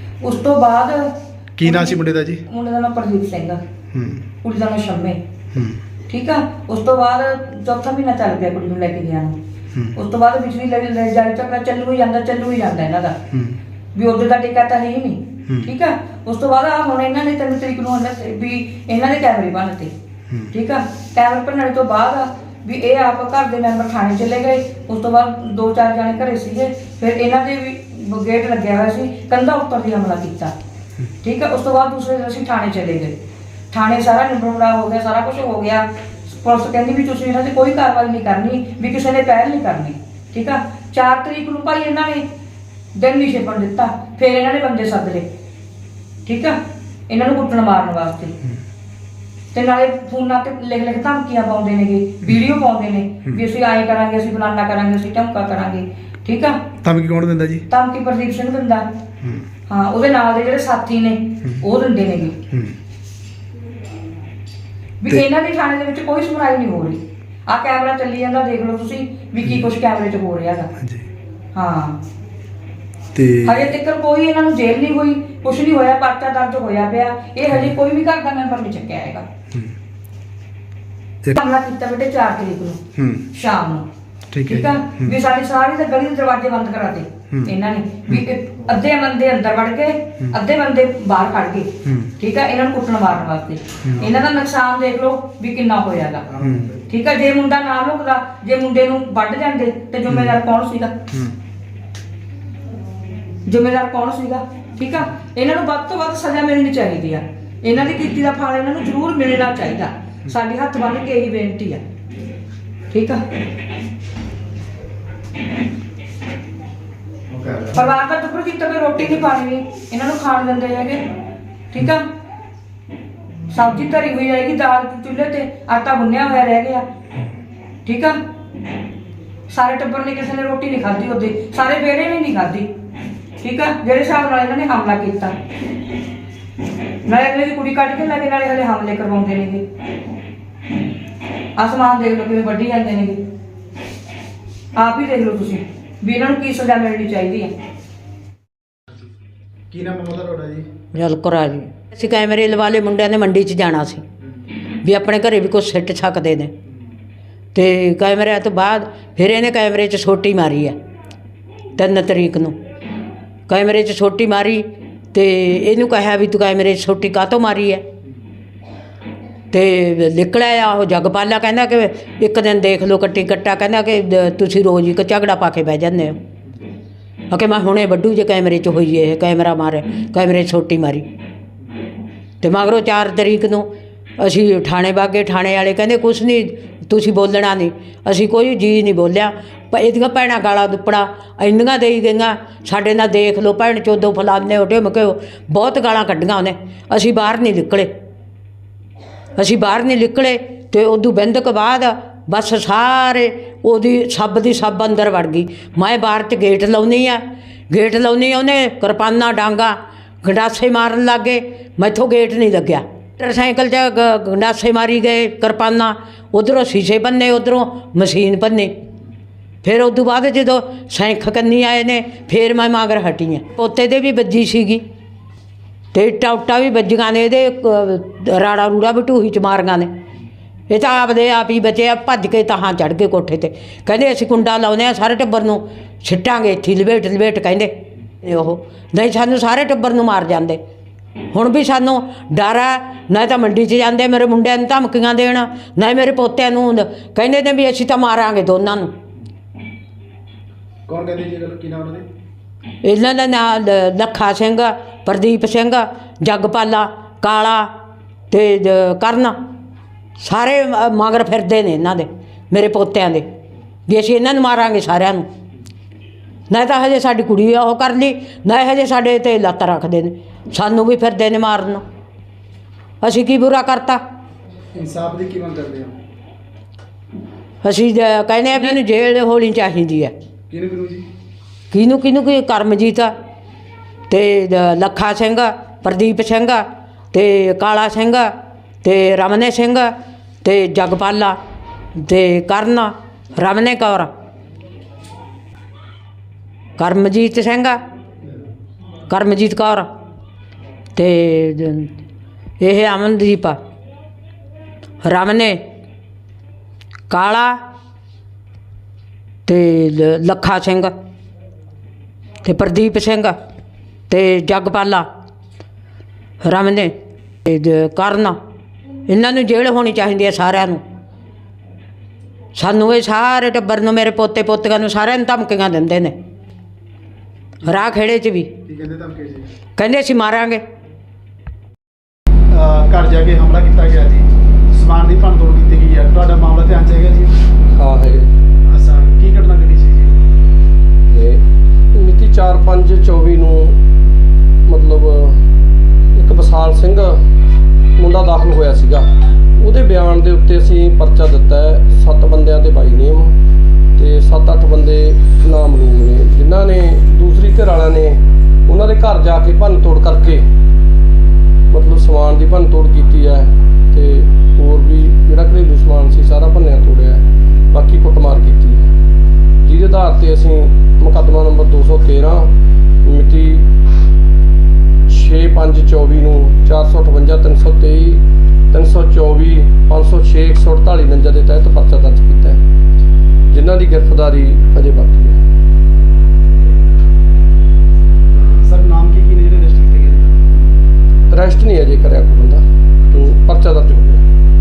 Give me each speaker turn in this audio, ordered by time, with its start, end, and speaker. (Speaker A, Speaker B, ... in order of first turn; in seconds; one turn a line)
Speaker A: 0.2-3.6
Speaker B: 1.6-2.4
Speaker B: 3.9-4.2
Speaker A: 4.4-5.2
Speaker B: 5.5-5.8
Speaker A: 6.1-9.4
Speaker A: 9.9-13.2
Speaker A: 13.9-19.9
Speaker A: 20.5-30.5
Speaker A: 31.2-33.1
Speaker A: 33.7-42.2
Speaker A: 43.0-45.3
Speaker A: 46.3-46.6
Speaker A: 47.1-48.3
Speaker A: 49.5-56.6
Speaker B: 56.8-57.6
Speaker A: 57.7-58.9
Speaker A: 59.7-62.4
Speaker A: 65.0-70.7
Speaker B: 70.8-71.1
Speaker A: 71.5-72.0
Speaker B: 73.1-73.6
Speaker A: 73.4-79.3
Speaker A: 81.3-82.8
Speaker B: 83.0-83.3
Speaker A: 83.3-83.8
Speaker B: 84.3-85.1
Speaker A: 84.5-96.3
Speaker B: 96.4-96.8
Speaker A: 96.9-101.0
Speaker B: 100.1-100.4
Speaker A: 103.5-111.8
Speaker A: 112.9-113.2
Speaker A: 117.7-121.0
Speaker A: 121.7-122.1
Speaker A: 123.5-126.8
Speaker A: 127.8-128.2
Speaker A: 129.5-132.7
Speaker A: 133.4-135.3
Speaker A: 137.1-139.6
Speaker A: 141.6-143.2
Speaker A: 144.8-147.5
Speaker B: 149.7-150.7
Speaker C: 150.9-154.0
Speaker C: 154.7-156.5
Speaker C: 157.6-160.8
Speaker C: 161.8-162.6
Speaker C: 163.5-167.8
Speaker C: 169.5-176.2
Speaker C: 177.3-181.1
Speaker C: 182.4-183.7
Speaker C: 184.2-197.9
Speaker C: 199.4-218.7
Speaker C: 219.6-224.8
Speaker C: 225.9-229.9
Speaker C: 230.7-237.7
Speaker C: 238.2-240.6
Speaker C: 241.3-248.9
Speaker B: 250.9-252.1
Speaker C: 252.8-257.7
Speaker C: 258.3-259.4
Speaker C: 260.2-263.3
Speaker C: 263.9-265.3
Speaker C: 266.5-271.8
Speaker C: 273.0-274.0
Speaker B: 274.7-276.0
Speaker C: 277.6-280.1
Speaker B: 280.5-281.1
Speaker C: 281.7-283.1
Speaker C: 284.1-288.3
Speaker C: 288.8-289.9
Speaker C: 290.4-291.4
Speaker C: 292.0-294.1
Speaker C: 296.8-297.8
Speaker C: 299.1-299.9
Speaker C: 301.0-301.9
Speaker C: 302.6-303.6
Speaker C: 305.0-305.6
Speaker C: 307.1-307.6
Speaker C: 309.5-310.9
Speaker C: 312.4-313.4
Speaker C: 314.1-315.1
Speaker C: 316.4-316.9
Speaker C: 317.4-318.4
Speaker C: 319.1-320.8
Speaker C: 322.6-326.2
Speaker C: 327.6-328.6
Speaker B: 328.6-329.5
Speaker C: 329.8-330.6
Speaker B: 332.5-337.4
Speaker D: 337.7-338.3
Speaker B: 338.7-340.3
Speaker D: 341.1-343.8
Speaker D: 344.7-345.4
Speaker D: 346.1-347.2
Speaker D: 348.0-353.4
Speaker D: 354.0-360.5
Speaker D: 361.7-368.9
Speaker D: 369.7-373.7
Speaker D: 375.1-382.6
Speaker D: 383.5-385.4
Speaker B: 388.3-390.7
Speaker D: 391.3-394.2